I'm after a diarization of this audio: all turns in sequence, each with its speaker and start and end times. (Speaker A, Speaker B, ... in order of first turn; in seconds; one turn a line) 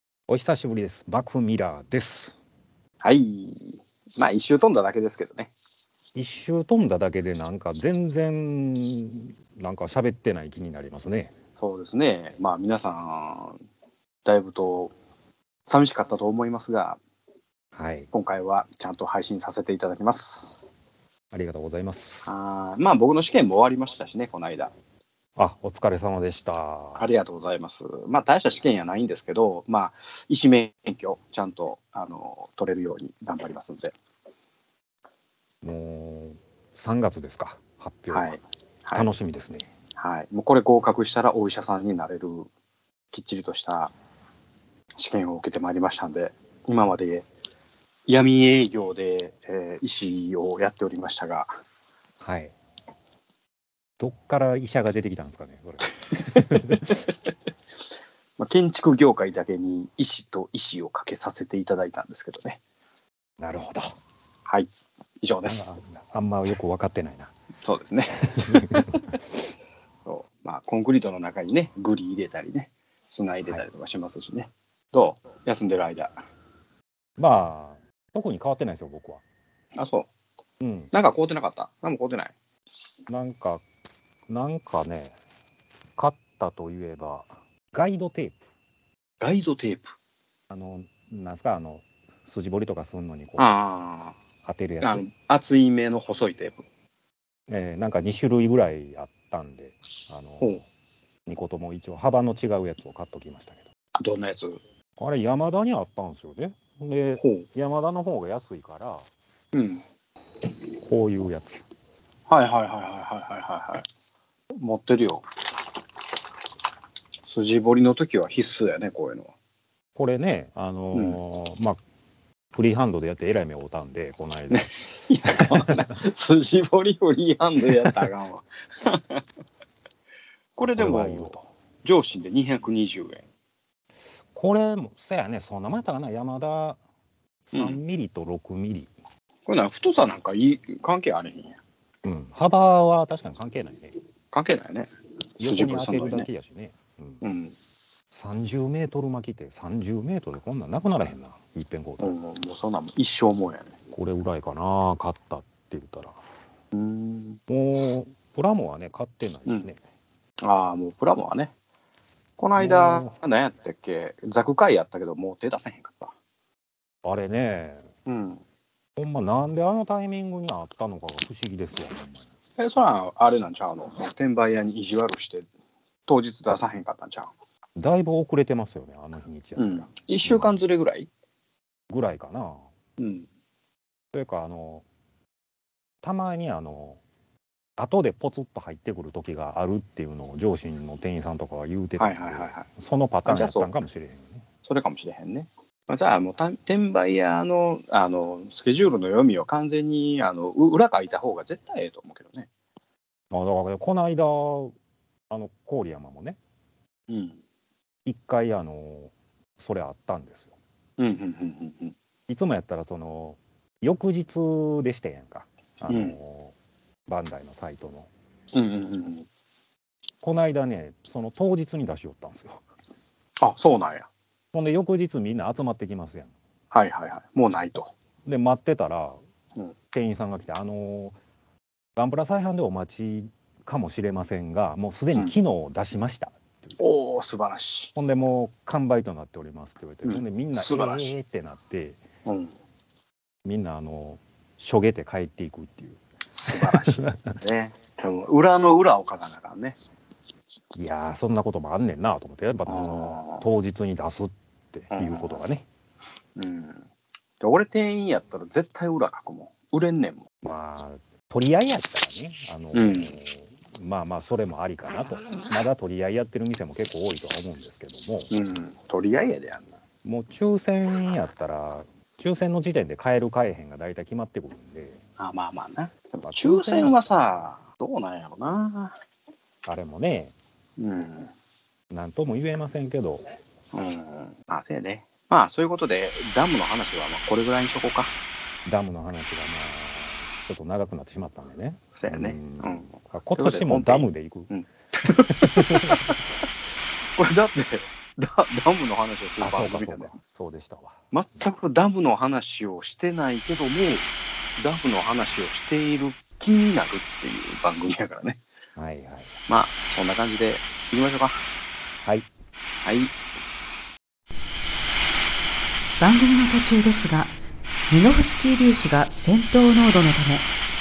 Speaker A: 0.3-2.4
Speaker B: 3.0-5.5
Speaker A: 6.1-11.3
Speaker B: 11.6-13.6
Speaker B: 14.2-14.9
Speaker B: 15.7-17.0
Speaker A: 17.7-18.1
Speaker B: 18.1-20.7
Speaker A: 21.3-22.3
Speaker B: 22.2-24.7
Speaker A: 25.4-27.1
Speaker B: 26.9-33.9
Speaker A: 35.6-38.3
Speaker B: 38.1-39.1
Speaker A: 38.9-39.7
Speaker B: 40.0-42.5
Speaker B: 43.1-43.9
Speaker B: 45.0-47.2
Speaker B: 48.1-51.5
Speaker A: 52.2-52.5
Speaker A: 54.0-57.0
Speaker B: 56.3-56.8
Speaker B: 58.4-62.6
Speaker A: 63.4-63.9
Speaker B: 65.2-65.8
Speaker A: 65.5-67.3
Speaker B: 67.6-69.0
Speaker A: 68.2-69.0
Speaker B: 70.0-76.2
Speaker A: 77.2-79.2
Speaker B: 79.8-80.1
Speaker A: 80.6-80.9
Speaker B: 80.9-82.3
Speaker A: 83.1-83.6
Speaker A: 84.3-85.1
Speaker A: 86.0-88.4
Speaker B: 89.2-89.9
Speaker A: 90.5-93.5
Speaker B: 93.4-94.2
Speaker A: 94.4-95.0
Speaker B: 94.8-96.6
Speaker A: 97.5-100.6
Speaker A: 101.2-103.7
Speaker B: 104.0-104.6
Speaker A: 105.0-109.1
Speaker B: 107.2-107.5
Speaker B: 109.5-109.8
Speaker A: 110.8-111.6
Speaker B: 112.3-113.8
Speaker B: 114.5-115.2
Speaker B: 117.2-119.3
Speaker A: 120.0-121.8
Speaker A: 122.5-124.7
Speaker B: 124.5-129.2
Speaker A: 125.3-125.7
Speaker B: 130.6-133.2
Speaker A: 130.7-131.4
Speaker A: 134.3-136.8
Speaker B: 137.5-137.8
Speaker A: 137.5-138.9
Speaker B: 139.5-141.6
Speaker A: 142.0-143.9
Speaker B: 144.3-146.3
Speaker A: 145.4-147.2
Speaker B: 147.2-147.5
Speaker A: 148.1-152.1
Speaker B: 152.0-153.7
Speaker A: 153.9-156.2
Speaker B: 156.7-157.4
Speaker A: 157.5-159.8
Speaker B: 160.4-161.5
Speaker B: 162.4-166.1
Speaker A: 162.6-163.2
Speaker A: 167.0-167.9
Speaker B: 168.1-168.4
Speaker A: 168.9-172.2
Speaker B: 172.6-175.5
Speaker B: 176.1-177.3
Speaker A: 177.8-180.5
Speaker B: 179.6-181.1
Speaker A: 181.9-182.7
Speaker B: 183.0-183.3
Speaker A: 184.1-184.8
Speaker A: 186.0-187.0
Speaker A: 187.8-194.4
Speaker B: 192.0-192.7
Speaker B: 193.2-193.7
Speaker B: 194.6-202.5
Speaker A: 203.3-204.7
Speaker A: 205.3-206.4
Speaker B: 207.1-207.4
Speaker A: 208.0-210.5
Speaker B: 211.0-211.9
Speaker A: 212.3-216.5
Speaker B: 215.9-216.2
Speaker A: 217.1-218.1
Speaker B: 218.5-219.3
Speaker A: 220.2-222.6
Speaker B: 223.4-224.1
Speaker A: 224.5-226.3
Speaker B: 226.7-227.9
Speaker A: 228.2-229.2
Speaker A: 229.9-231.2
Speaker A: 231.9-236.7
Speaker B: 236.8-237.9
Speaker A: 237.9-242.0
Speaker B: 240.0-241.1
Speaker B: 242.2-242.5
Speaker A: 243.4-247.2
Speaker B: 246.3-249.8
Speaker A: 250.7-255.7
Speaker B: 252.7-253.4
Speaker B: 254.9-255.4
Speaker B: 256.4-256.9
Speaker B: 257.4-260.3
Speaker A: 260.4-268.3
Speaker B: 262.7-263.1
Speaker B: 268.3-269.7
Speaker A: 270.0-275.0
Speaker B: 275.2-278.9
Speaker A: 276.2-277.0
Speaker A: 279.6-280.3
Speaker B: 280.8-281.3
Speaker A: 281.9-283.3
Speaker B: 283.7-288.1
Speaker A: 288.6-294.5
Speaker B: 292.0-296.2
Speaker A: 295.0-296.3
Speaker B: 297.1-300.1
Speaker A: 299.4-301.0
Speaker B: 301.1-308.4
Speaker A: 308.8-309.3
Speaker B: 309.5-311.4
Speaker B: 312.8-313.1
Speaker C: 316.0-317.3
Speaker C: 317.9-320.5